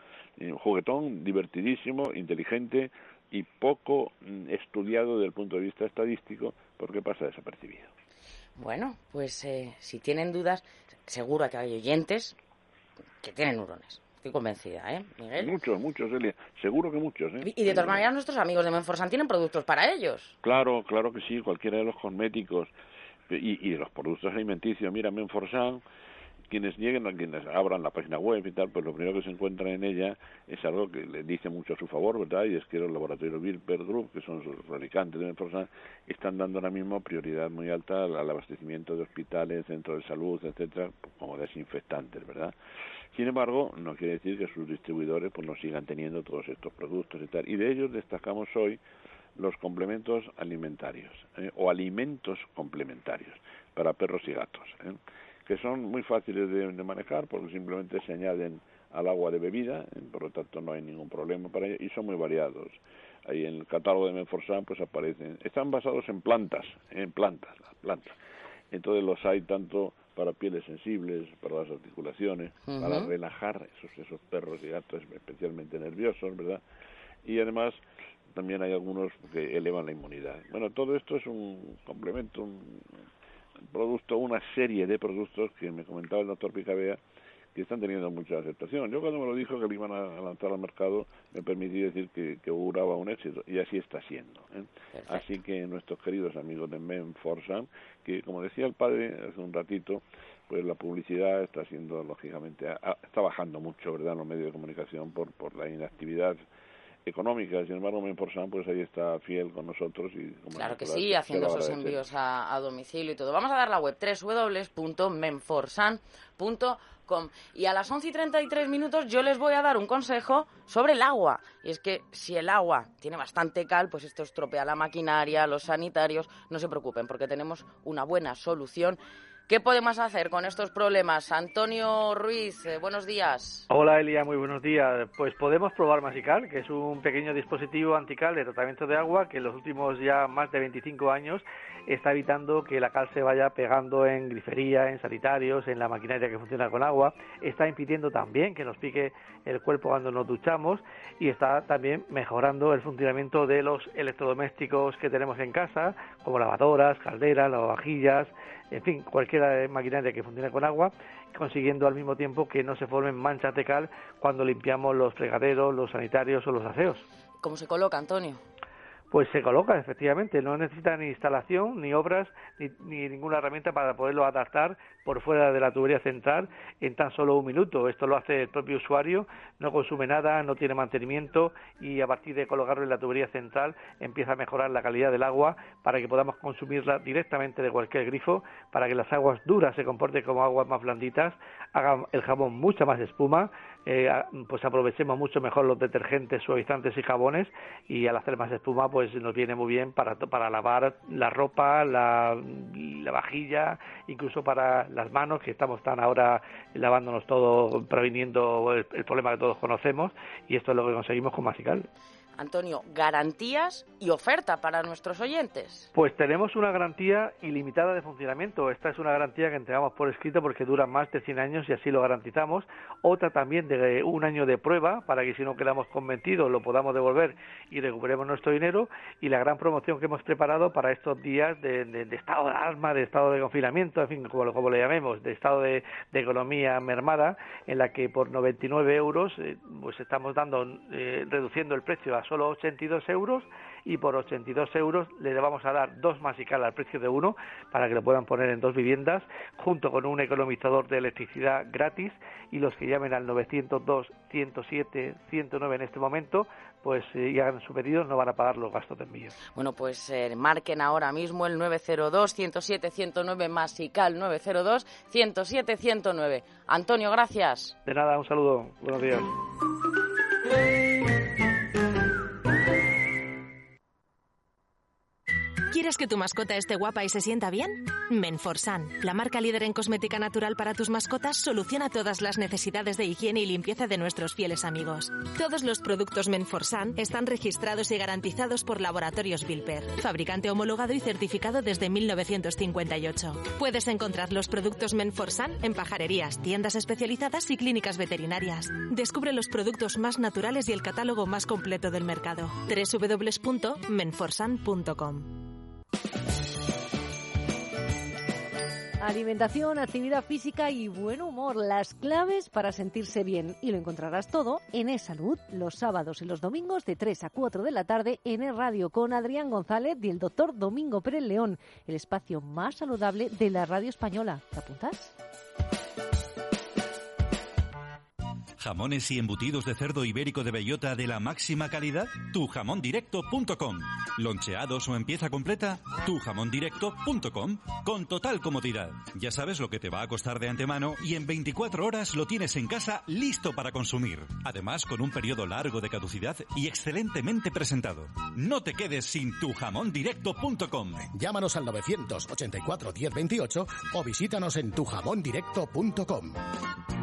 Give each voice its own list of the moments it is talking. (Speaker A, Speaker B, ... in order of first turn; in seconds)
Speaker A: 0.4-7.9, 15.4-18.1, 20.4-22.7, 23.3-25.8, 26.5-42.5, 43.1-48.8, 49.4-68.2, 68.7-76.6, 77.2-83.0, 83.6-87.0, 87.5-106.4, 107.0-112.0
Speaker B: 8.6-12.4, 13.2-15.5, 17.4-20.4, 72.7-73.1, 94.9-95.2, 110.5-133.7, 167.4-168.4, 212.4-215.9, 259.5-267.8
Speaker C: 133.7-167.0, 169.1-211.9, 215.9-259.4, 267.9-269.3
Speaker D: 275.7-305.5
Speaker E: 309.0-325.1
Speaker F: 328.6-351.1
Speaker G: 351.1-356.4